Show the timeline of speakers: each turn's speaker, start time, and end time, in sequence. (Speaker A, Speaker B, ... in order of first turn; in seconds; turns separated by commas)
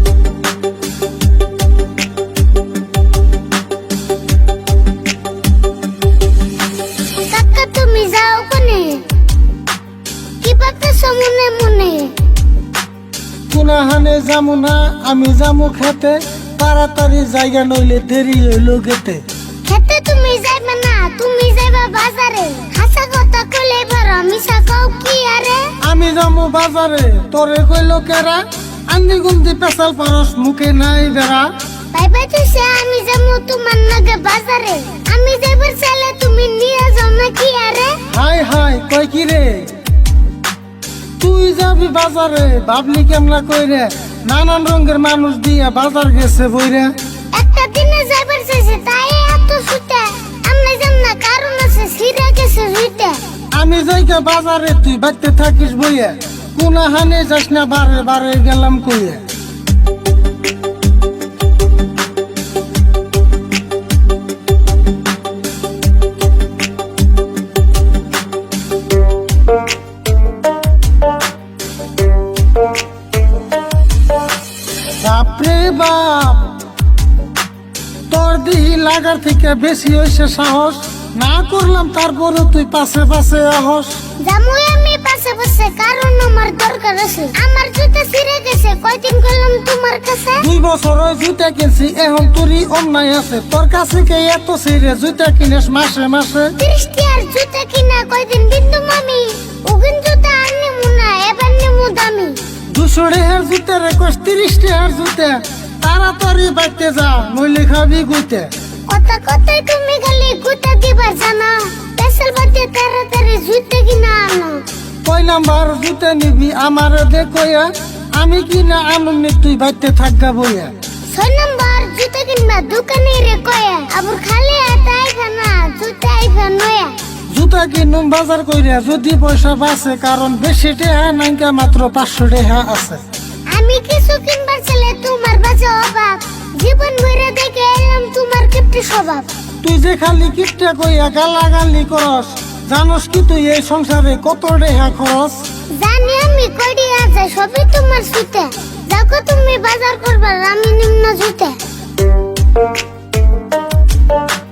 Speaker A: 7.3-9.0, Speaker A: 10.4-12.2, Speaker B: 13.5-19.2, Speaker A: 19.6-25.8, Speaker B: 25.8-31.5, Speaker A: 31.9-38.0, Speaker B: 38.1-39.7, Speaker B: 41.2-46.9, Speaker A: 47.3-53.2, Speaker B: 53.5-59.2, Speaker B: 75.0-76.6, Speaker B: 78.1-84.0, Speaker A: 84.2-90.5, Speaker B: 90.4-96.5, Speaker A: 96.6-102.4, Speaker B: 102.7-108.5, Speaker A: 108.9-114.6, Speaker B: 115.0-120.7, Speaker A: 121.1-127.0, Speaker B: 127.3-133.0, Speaker A: 133.5-139.3, Speaker B: 139.6-145.4, Speaker A: 145.7-151.6